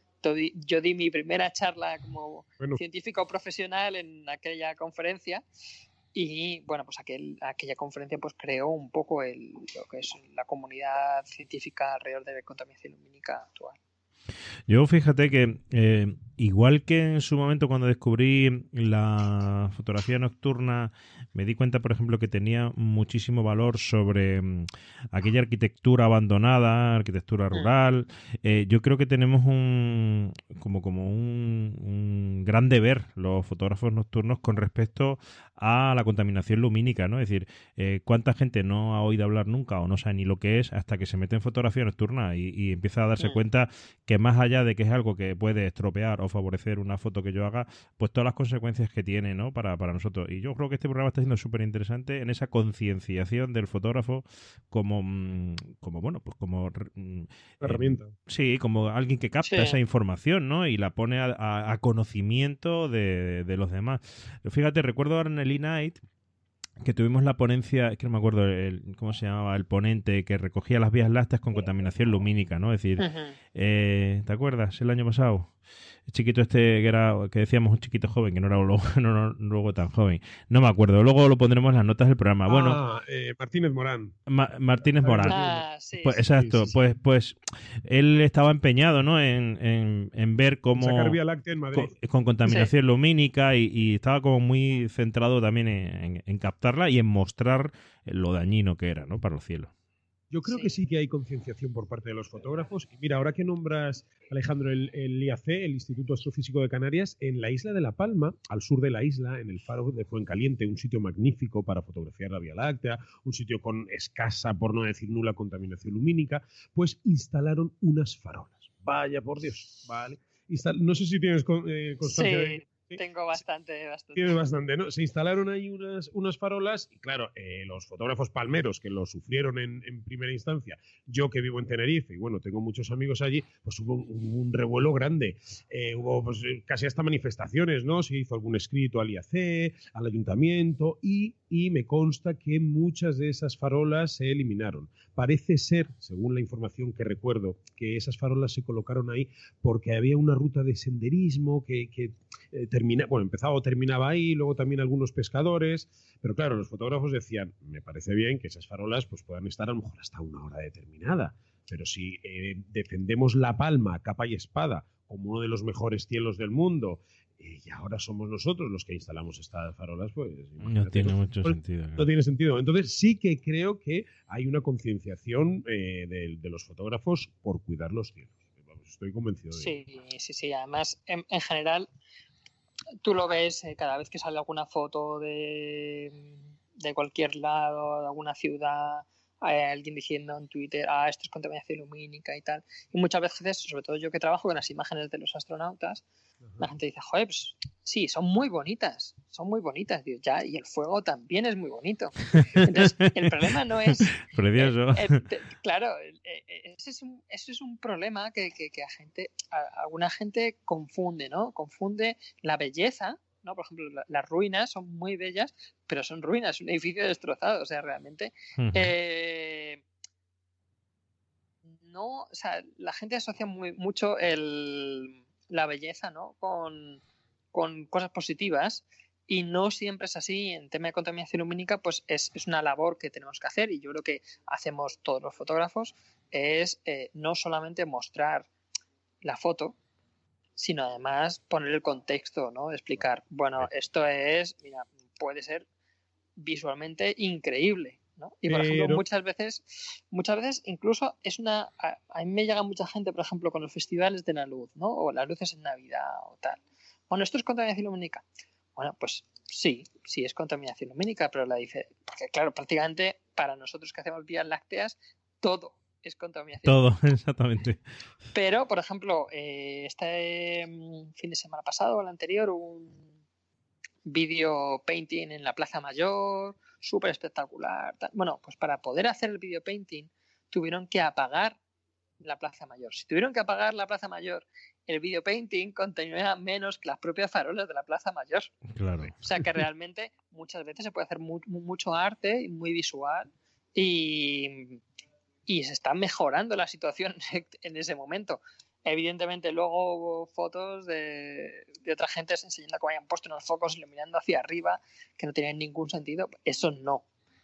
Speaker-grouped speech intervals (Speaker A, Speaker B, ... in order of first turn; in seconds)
Speaker A: 0.2-5.4, 6.1-13.8, 59.4-59.8, 73.0-73.3, 85.2-86.2, 92.5-92.7, 100.5-100.7, 122.1-124.3, 179.5-181.9, 183.0-196.0, 196.6-219.8, 221.8-227.0, 227.5-238.5, 239.2-239.8, 240.6-245.7, 246.4-258.2, 258.8-266.9, 268.3-273.1, 274.1-281.6, 282.2-288.5, 289.2-294.8, 295.4-307.1
Speaker B: 14.7-66.0, 66.8-75.5, 76.1-82.8, 84.3-85.3, 86.0-91.2, 91.7-99.7, 170.6-172.1, 202.4-203.3, 204.0-205.2, 218.6-218.9, 266.6-267.8, 288.7-289.2
Speaker C: 57.6-58.1, 82.5-84.2, 84.9-85.6, 86.3-86.8, 90.8-91.9, 100.3-123.0, 124.1-179.8, 248.5-249.0